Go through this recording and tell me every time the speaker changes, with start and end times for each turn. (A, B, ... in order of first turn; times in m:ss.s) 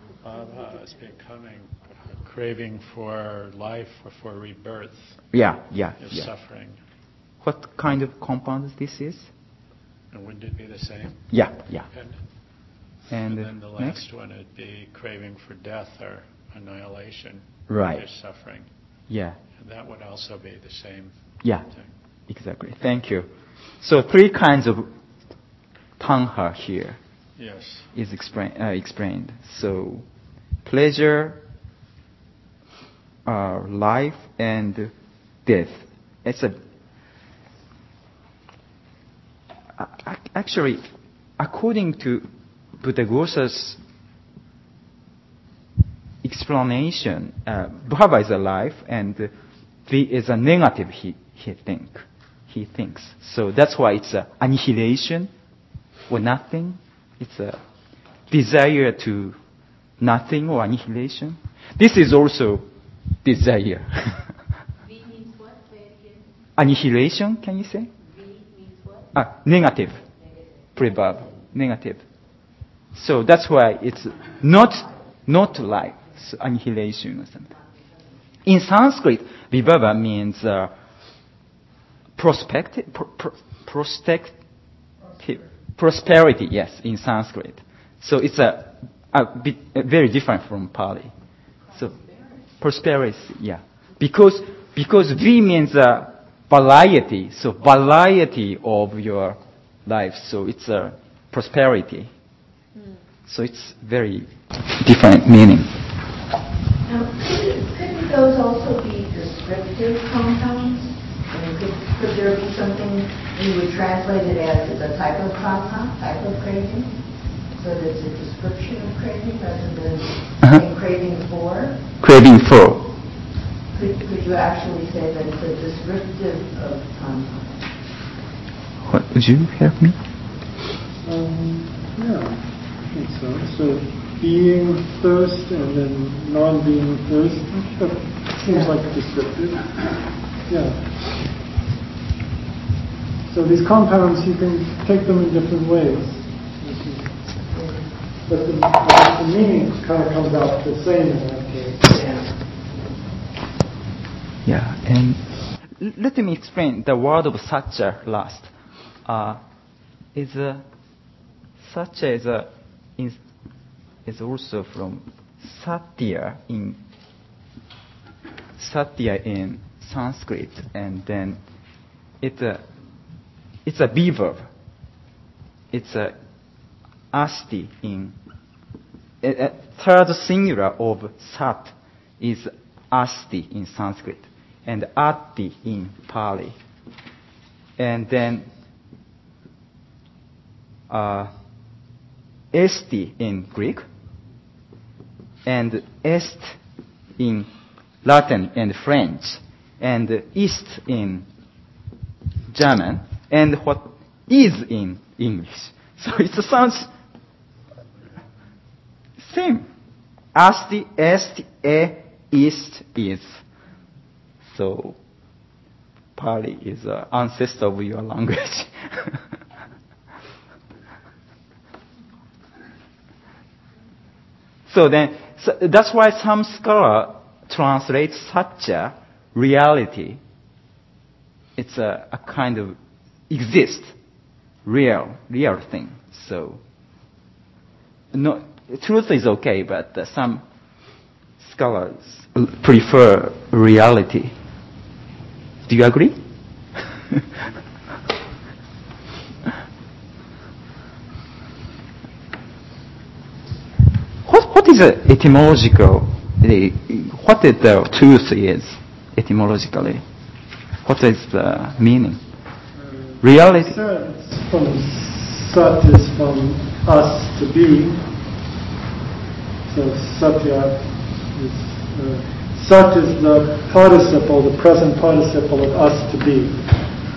0:00.3-0:05.1 A
0:05.3-0:06.3 B
0:06.0-0:06.8 A
0:07.4-0:09.3 B
0:10.1-0:11.4 A
0:11.3-0:11.9 B
0:11.9-0:12.2 A
0:13.1-0:14.0 B
0:13.2-0:17.4 A
0:17.7-0:18.0 B
0:17.9-0:18.6 A
0:19.1-0:19.4 B
0:19.6-0:21.1 A
0:22.3-0:23.3 B
0:23.8-0:24.9 B
0:26.0-0:27.0 B
0:27.4-0:27.8 A
0:27.9-0:30.0 B
0:30.6-0:31.4 B
0:33.2-0:34.9 B
0:35.4-0:36.6 B
0:39.8-0:40.8 B
0:41.4-0:42.3 B
0:42.8-0:43.8 B
0:46.2-0:49.3 B
0:49.8-0:55.3 B
0:56.1-0:57.6 B
0:58.3-0:59.4 B
1:00.0-1:02.7 B
1:03.2-1:04.3 B
1:04.8-1:06.3 C
1:06.6-1:07.9 B
1:08.0-1:09.1 C
1:09.1-1:10.0 B
1:10.7-1:12.0 B
1:12.9-1:17.5 B
1:18.4-1:20.7 B
1:22.2-1:24.4 B
1:25.2-1:31.1 B
1:31.7-1:32.5 C
1:32.6-1:42.1 B
1:43.3-1:45.7 B
1:46.8-2:01.8 D
2:02.0-2:02.8 B
2:03.7-2:07.6 D
2:08.8-2:10.0 B
2:11.0-2:21.2 E
2:18.4-2:18.7 D
2:23.3-2:27.0 E
2:27.5-2:27.8 D
2:28.3-2:31.9 E
2:34.4-2:38.5 B
2:39.0-2:39.4 B
2:40.1-2:40.6 B
2:41.6-2:43.2 B
2:44.0-2:46.8 B
2:48.6-2:51.4 B
2:52.2-2:52.6 B
2:53.6-2:54.5 B
2:55.7-2:56.1 B
2:57.1-2:58.1 B
2:59.2-3:06.6 B
3:07.8-3:08.5 B
3:10.9-3:11.3 B
3:12.5-3:13.8 B
3:15.4-3:16.6 B
3:17.2-3:17.5 B
3:18.0-3:21.2 B
3:22.5-3:26.9 B
3:29.2-3:29.7 B
3:30.3-3:33.4 B
3:34.4-3:35.0 B
3:36.2-3:39.2 B
3:44.7-3:50.2 B
3:51.6-3:52.8 B
3:53.3-3:53.9 B
3:54.6-3:56.6 B
3:58.1-4:00.4 B
4:01.4-4:04.3 B
4:05.6-4:06.2 B
4:14.2-4:20.0 B
4:20.8-4:22.2 B
4:22.8-4:28.1 E
4:23.2-4:23.8 B
4:29.6-4:36.9 E